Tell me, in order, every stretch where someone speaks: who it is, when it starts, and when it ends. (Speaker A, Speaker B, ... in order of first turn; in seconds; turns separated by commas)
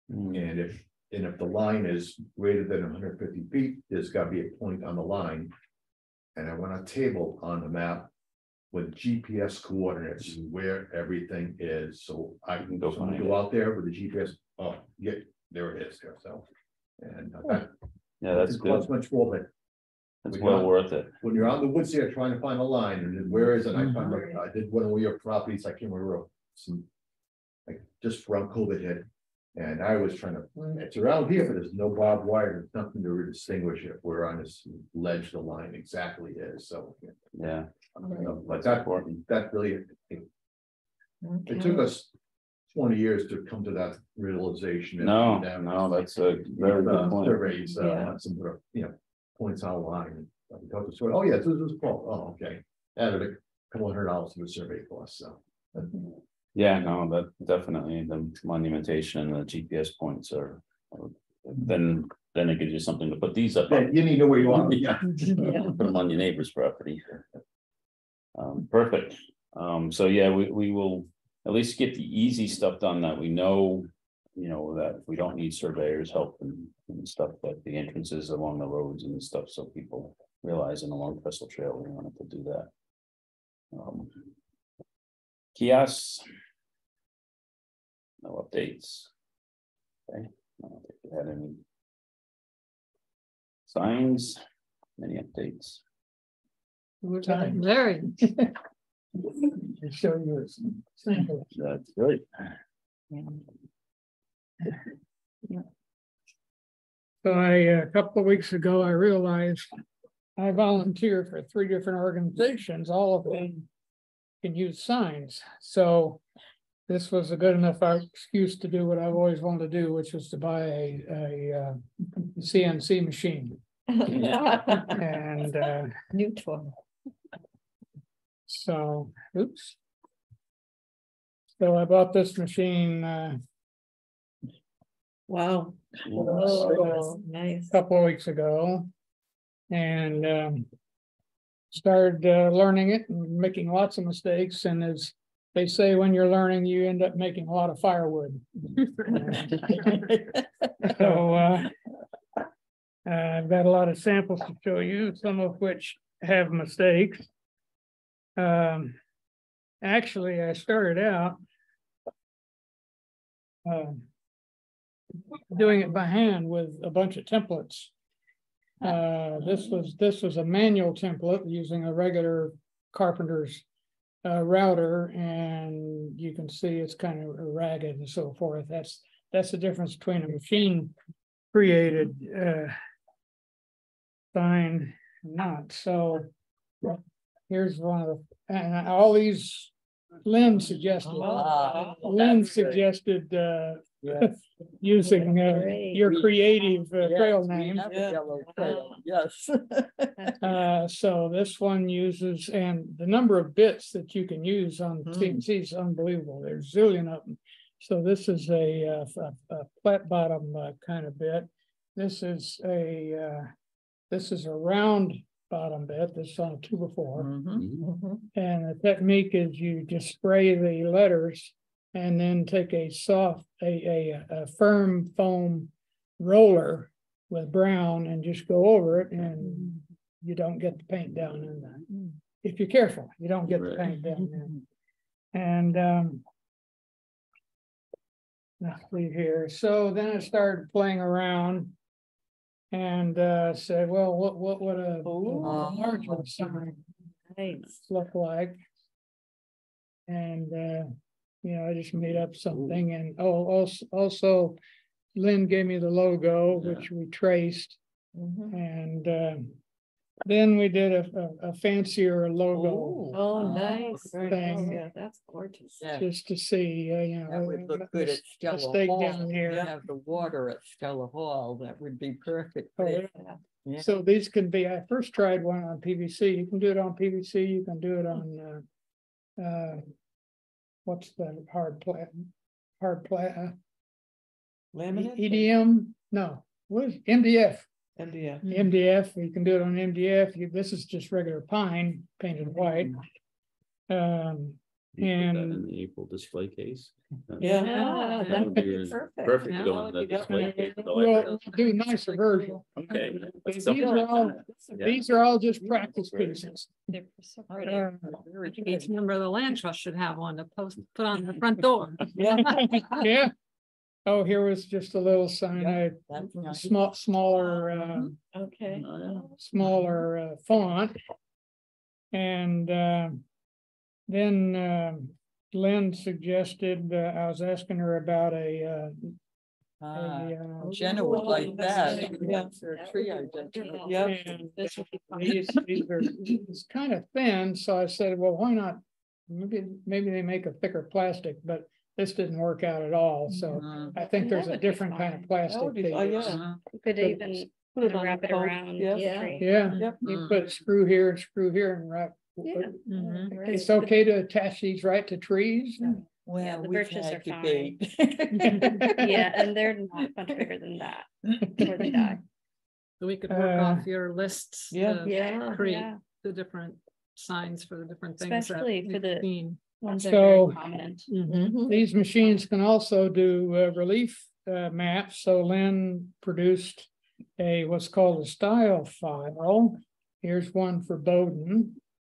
Speaker A: 0.1-0.4, Speaker B: 0.3-5.5, Speaker B: 6.3-8.1, Speaker B: 8.7-16.5, Speaker A: 12.6-13.4, Speaker B: 17.0-17.7, Speaker A: 18.2-18.9, Speaker B: 18.3-19.5, Speaker A: 20.3-21.1, Speaker B: 20.3-26.9, Speaker C: 23.8-24.1, Speaker B: 27.7-37.1, Speaker A: 37.4-39.2, Speaker B: 38.0-40.3, Speaker D: 38.0-38.4, Speaker D: 41.2-41.9, Speaker B: 41.5-42.1, Speaker B: 42.7-56.0, Speaker A: 45.0-47.5, Speaker D: 47.7-48.2, Speaker A: 56.5-67.2, Speaker B: 63.7-65.8, Speaker D: 65.3-65.7, Speaker A: 68.3-82.7, Speaker A: 83.7-84.2, Speaker A: 85.5-86.2, Speaker A: 88.2-89.1, Speaker A: 90.1-91.6, Speaker A: 93.7-94.4, Speaker A: 95.0-95.8, Speaker E: 97.0-98.3, Speaker F: 97.2-98.5, Speaker F: 99.8-101.5, Speaker A: 101.5-102.5, Speaker F: 107.2-109.7, Speaker F: 110.4-113.7, Speaker F: 114.4-116.2, Speaker F: 116.9-121.8, Speaker F: 122.3-123.6, Speaker D: 123.9-125.1, Speaker A: 124.1-124.4, Speaker F: 125.0-125.9, Speaker D: 126.1-126.8, Speaker F: 128.5-129.8, Speaker F: 131.6-133.4, Speaker G: 135.3-135.8, Speaker A: 136.1-136.6, Speaker D: 136.1-137.8, Speaker G: 136.3-137.1, Speaker F: 137.7-138.9, Speaker F: 139.7-140.7, Speaker F: 141.7-150.1, Speaker C: 149.1-150.3, Speaker F: 150.8-151.7, Speaker C: 150.9-151.4, Speaker F: 153.1-157.3, Speaker F: 158.4-159.0, Speaker F: 159.8-161.4, Speaker F: 163.7-164.0, Speaker F: 165.5-167.9, Speaker F: 168.8-173.6, Speaker F: 174.2-180.9, Speaker F: 181.5-182.8, Speaker F: 184.3-186.3, Speaker F: 186.8-189.7, Speaker F: 190.2-198.0, Speaker C: 191.3-192.6, Speaker C: 194.0-194.3, Speaker D: 195.0-196.2, Speaker C: 196.9-200.3, Speaker G: 197.9-198.2, Speaker D: 198.6-199.0, Speaker H: 198.7-198.9, Speaker F: 200.4-213.5, Speaker C: 205.1-205.4, Speaker F: 214.1-217.3, Speaker C: 217.1-218.0, Speaker A: 217.6-217.8, Speaker D: 217.8-218.2, Speaker F: 218.3-231.8, Speaker F: 232.4-234.5, Speaker A: 233.5-233.9, Speaker F: 235.3-236.2, Speaker F: 238.6-241.8, Speaker F: 242.7-246.8, Speaker G: 245.1-245.6, Speaker C: 245.4-246.2, Speaker D: 245.5-246.1, Speaker D: 247.3-247.8, Speaker F: 247.8-248.6, Speaker F: 250.1-250.9, Speaker F: 251.4-254.6, Speaker F: 255.2-257.8, Speaker A: 256.5-256.9, Speaker D: 258.1-258.6, Speaker F: 258.5-259.6, Speaker F: 260.3-263.1, Speaker G: 262.6-263.4, Speaker D: 263.1-265.8, Speaker C: 263.4-264.1, Speaker F: 264.2-264.8, Speaker C: 265.8-266.1, Speaker F: 266.0-269.7, Speaker C: 267.3-273.0, Speaker F: 272.8-273.1, Speaker C: 273.6-273.9, Speaker F: 273.8-278.6, Speaker F: 279.4-279.8, Speaker F: 280.9-282.3, Speaker F: 282.8-283.6, Speaker G: 284.7-285.5, Speaker F: 284.9-287.7, Speaker G: 288.0-288.5, Speaker F: 288.5-293.0, Speaker F: 293.9-295.7, Speaker A: 295.0-297.7, Speaker G: 297.4-298.4, Speaker D: 297.5-300.9, Speaker H: 297.6-298.7, Speaker A: 298.3-301.5, Speaker H: 299.5-299.9, Speaker G: 300.1-300.4, Speaker F: 300.2-306.8, Speaker E: 302.1-302.6, Speaker A: 302.8-305.1, Speaker A: 305.9-306.4, Speaker H: 306.9-307.9, Speaker C: 307.5-309.0, Speaker F: 307.7-308.2, Speaker E: 308.5-312.7, Speaker C: 312.2-312.8, Speaker F: 312.4-313.3, Speaker F: 314.1-318.2, Speaker C: 315.5-316.8, Speaker D: 318.3-319.4, Speaker A: 318.8-319.3, Speaker F: 319.4-321.0, Speaker F: 322.1-323.2, Speaker F: 324.1-329.2, Speaker C: 329.8-333.8, Speaker F: 329.9-331.5, Speaker D: 330.6-334.9, Speaker H: 331.1-335.4, Speaker G: 331.4-332.5, Speaker G: 333.9-334.2, Speaker F: 334.1-346.2, Speaker C: 343.5-343.9, Speaker D: 343.6-344.3, Speaker H: 343.8-345.3, Speaker G: 345.5-346.4, Speaker C: 346.2-346.6, Speaker H: 346.7-349.5, Speaker G: 347.0-349.2, Speaker D: 348.9-350.0, Speaker F: 349.4-352.7, Speaker C: 350.0-350.4, Speaker D: 352.5-353.7, Speaker H: 352.5-353.9, Speaker E: 352.9-353.4, Speaker F: 353.4-355.9, Speaker C: 356.2-359.5, Speaker H: 356.4-357.8, Speaker H: 358.4-362.2, Speaker C: 361.3-361.9, Speaker E: 363.0-369.6, Speaker F: 363.3-363.9, Speaker G: 364.7-365.0, Speaker D: 365.0-365.6, Speaker H: 365.5-366.0, Speaker H: 368.2-371.1, Speaker F: 369.9-370.6, Speaker D: 371.2-371.8, Speaker F: 371.3-381.8